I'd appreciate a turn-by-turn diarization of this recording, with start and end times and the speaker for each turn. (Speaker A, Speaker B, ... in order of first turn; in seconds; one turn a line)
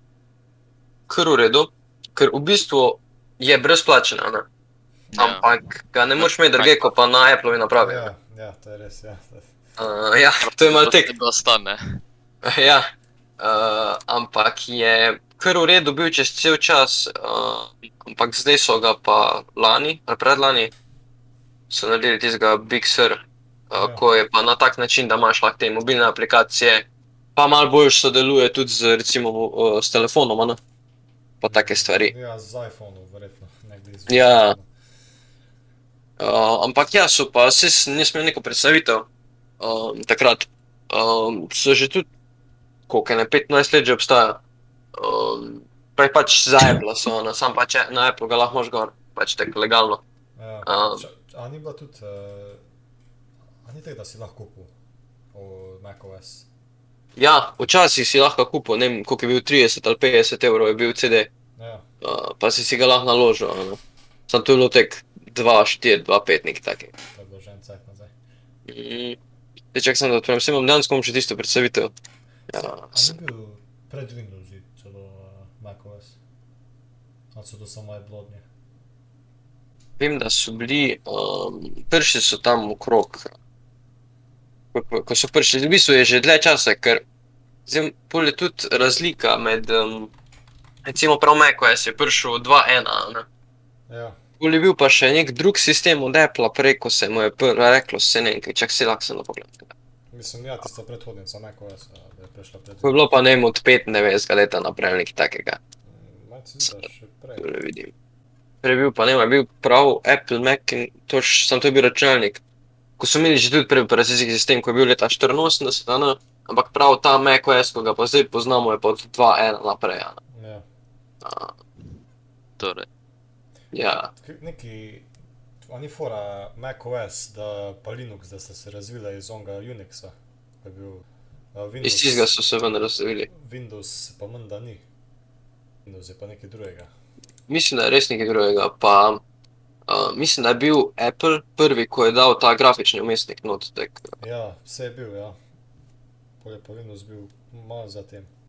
Speaker A: 1.1-4.5
Speaker B: 5.1-5.5
Speaker A: 5.2-8.1
Speaker B: 6.2-6.9
Speaker C: 7.8-9.5
Speaker A: 9.8-11.1
Speaker B: 10.4-12.0
Speaker A: 12.4-20.7
Speaker A: 21.7-30.6
Speaker C: 23.8-24.1
Speaker A: 31.4-32.1
Speaker C: 31.5-34.7
Speaker A: 34.1-34.6
Speaker A: 36.2-39.1
Speaker A: 39.6-42.1
Speaker A: 42.9-44.4
Speaker A: 45.0-50.0
Speaker C: 50.4-52.6
Speaker A: 50.6-51.0
Speaker C: 53.6-54.7
Speaker C: 55.3-56.5
Speaker A: 57.2-61.3
Speaker C: 61.6-61.9
Speaker A: 62.0-66.9
Speaker C: 67.1-68.1
Speaker A: 68.7-69.2
Speaker A: 69.7-71.9
Speaker A: 72.5-73.1
Speaker C: 72.6-76.2
Speaker C: 77.3-78.4
Speaker A: 80.0-83.3
Speaker A: 84.7-87.0
Speaker A: 87.7-90.1
Speaker A: 90.8-93.3
Speaker C: 93.9-94.2
Speaker A: 94.4-99.7
Speaker C: 100.1-103.0
Speaker A: 102.8-105.6
Speaker C: 105.8-107.5
Speaker A: 107.4-107.9
Speaker A: 108.6-112.4
Speaker A: 113.0-120.2
Speaker C: 120.3-120.6
Speaker A: 121.2-121.5
Speaker B: 122.6-122.9
Speaker A: 123.7-124.1
Speaker C: 124.1-125.1
Speaker C: 125.7-132.4
Speaker A: 131.8-133.3
Speaker C: 133.3-134.8
Speaker C: 135.9-136.9
Speaker A: 137.5-139.2
Speaker A: 139.9-144.0
Speaker C: 144.2-145.4
Speaker C: 146.4-148.3